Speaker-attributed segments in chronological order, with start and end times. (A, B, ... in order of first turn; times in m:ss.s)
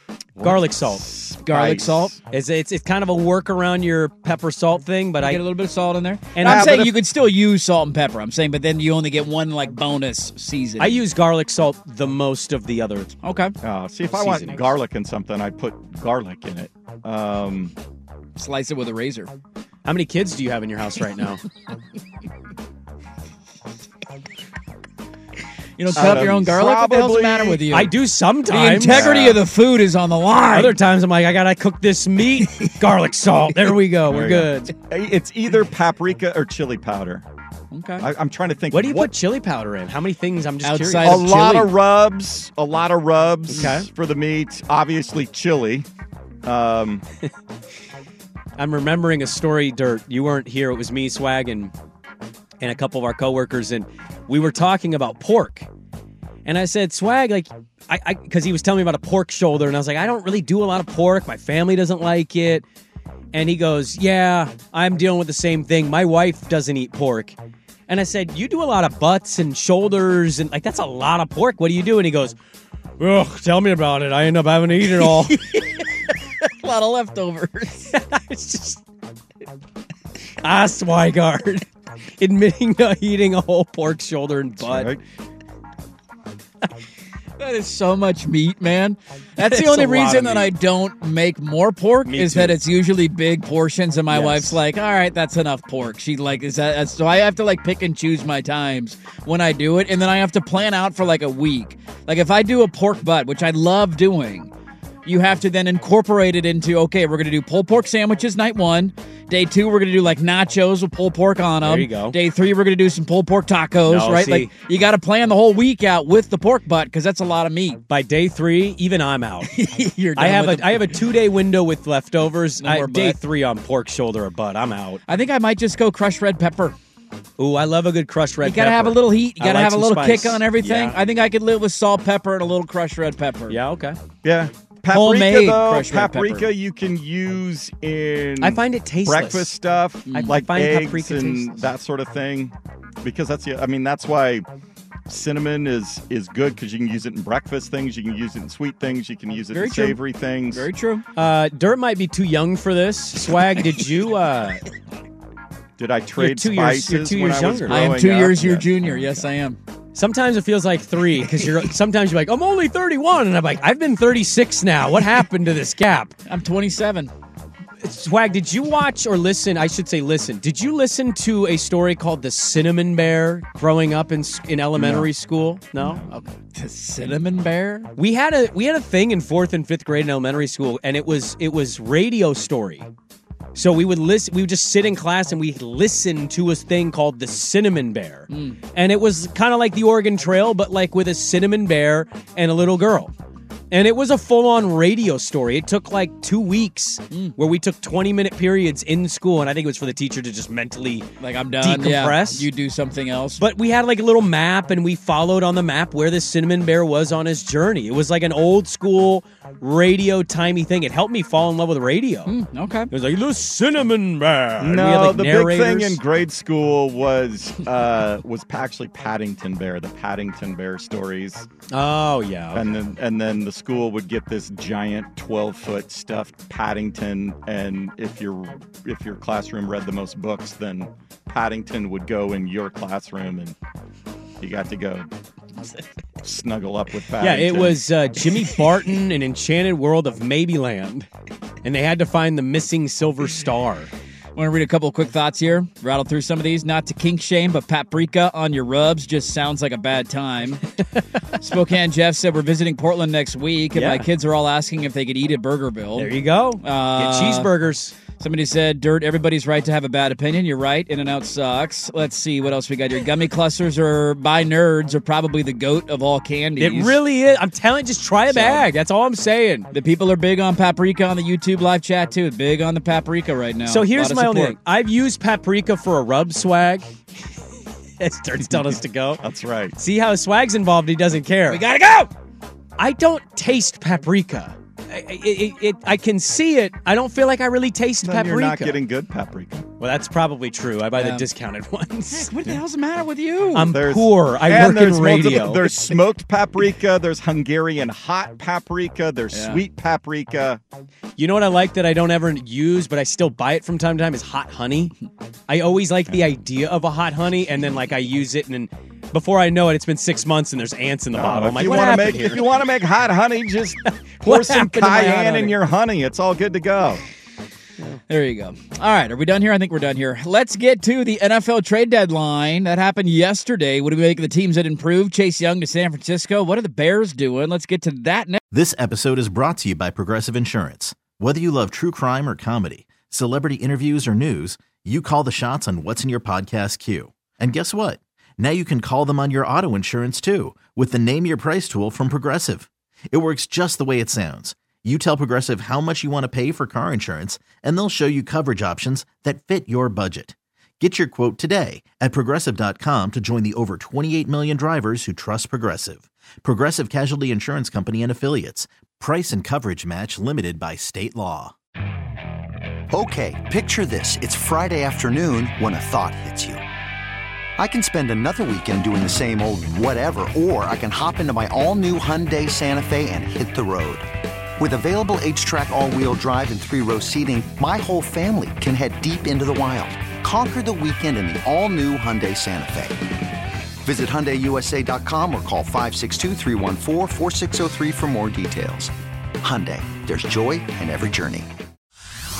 0:00.4-0:02.1 A
0:00.4-0:01.0 B
0:01.4-0:02.2 C
0:02.3-0:05.4 B
0:05.2-0:11.0 C
0:06.3-0:06.9 B
0:06.5-0:06.8 A
0:10.8-0:13.1 B
0:13.2-0:13.5 C
0:13.6-0:17.7 A
0:14.1-0:14.7 B
0:18.4-0:19.3 C
0:19.8-0:21.4 B
0:25.8-0:27.9 C
0:25.9-0:27.6 A
0:25.9-0:26.4 B
0:27.7-0:29.4 B
0:28.4-0:30.8 C
0:30.5-0:34.7 B
0:34.1-0:37.2 A
0:37.7-0:38.0 C
0:38.0-0:39.1 A
0:38.7-0:41.2 B
0:40.6-0:41.7 C
0:41.0-0:45.8 A
0:43.5-0:43.9 B
0:46.4-0:47.0 A
0:48.6-0:51.7 B
0:52.6-0:55.7 B
0:56.4-1:02.6 B
1:03.3-1:07.4 B
1:07.9-1:12.4 B
1:13.0-1:15.4 B
1:15.0-1:17.9 C
1:17.9-1:18.8 B
1:20.4-1:21.7 B
1:22.2-1:25.0 B
1:27.4-1:44.5 C
1:29.4-1:30.5 B
1:32.0-1:32.6 B
1:34.1-1:34.6 B
1:45.0-1:57.8 C
1:51.6-1:52.2 B
1:53.8-1:54.5 B
1:57.9-1:59.5 B
1:59.4-2:00.9 C
2:00.2-2:05.0 B
2:02.6-2:03.2 C
2:05.1-2:06.8 C
2:07.4-2:11.0 B
2:08.4-2:13.6 C
2:13.5-2:14.0 B
2:14.2-2:24.4 A
2:14.9-2:16.5 C
2:18.4-2:19.5 B
2:20.1-2:20.4 C
2:20.1-2:21.6 B
2:25.1-2:30.6 A
2:29.5-2:30.0 C
2:30.5-2:31.0 C
2:31.1-2:34.6 B
2:35.8-2:38.6 A
2:36.2-2:37.9 B
2:37.7-2:39.6 C
2:38.8-2:39.3 B
2:39.9-2:46.2 B
2:46.2-2:47.1 C
2:47.8-2:56.2 B
2:54.8-2:55.1 C
2:55.8-2:57.9 C
2:58.0-3:02.9 B
3:03.5-3:13.1 B
3:08.3-3:08.6 C
3:13.7-3:22.5 B
3:21.2-3:23.4 C
3:23.4-3:32.3 B
3:32.3-3:32.9 C
3:32.9-3:36.0 B
3:34.6-3:41.4 A
3:41.7-3:42.7 B
3:42.5-3:53.5 A
3:54.4-3:55.1 A
3:56.2-3:57.8 A
3:57.2-4:01.1 B
4:01.6-4:03.9 B
4:04.3-4:10.6 C
4:11.4-4:17.5 C
4:13.7-4:14.1 B
4:16.0-4:18.0 B
4:18.2-4:27.0 C
4:26.6-4:29.7 B
4:28.3-4:28.7 C
4:29.7-4:34.6 C
4:33.6-4:36.9 B
4:38.0-4:41.6 B
4:39.2-4:39.7 A
4:41.5-4:42.1 C
4:42.8-4:48.8 B
4:48.0-4:49.6 A
4:49.8-4:52.6 B
4:50.9-4:51.3 C
4:52.1-4:53.8 C
4:53.5-4:56.0 B
4:53.7-5:00.6 A
4:59.3-4:59.6 C
5:01.2-5:04.9 B
5:05.5-5:12.7 B
5:11.1-5:17.0 A
5:14.1-5:15.6 B
5:18.1-5:28.4 C
5:28.5-6:01.5 D
6:02.9-6:06.6 E
6:07.6-6:14.1 E
6:14.6-6:23.1 E
6:23.8-6:31.5 E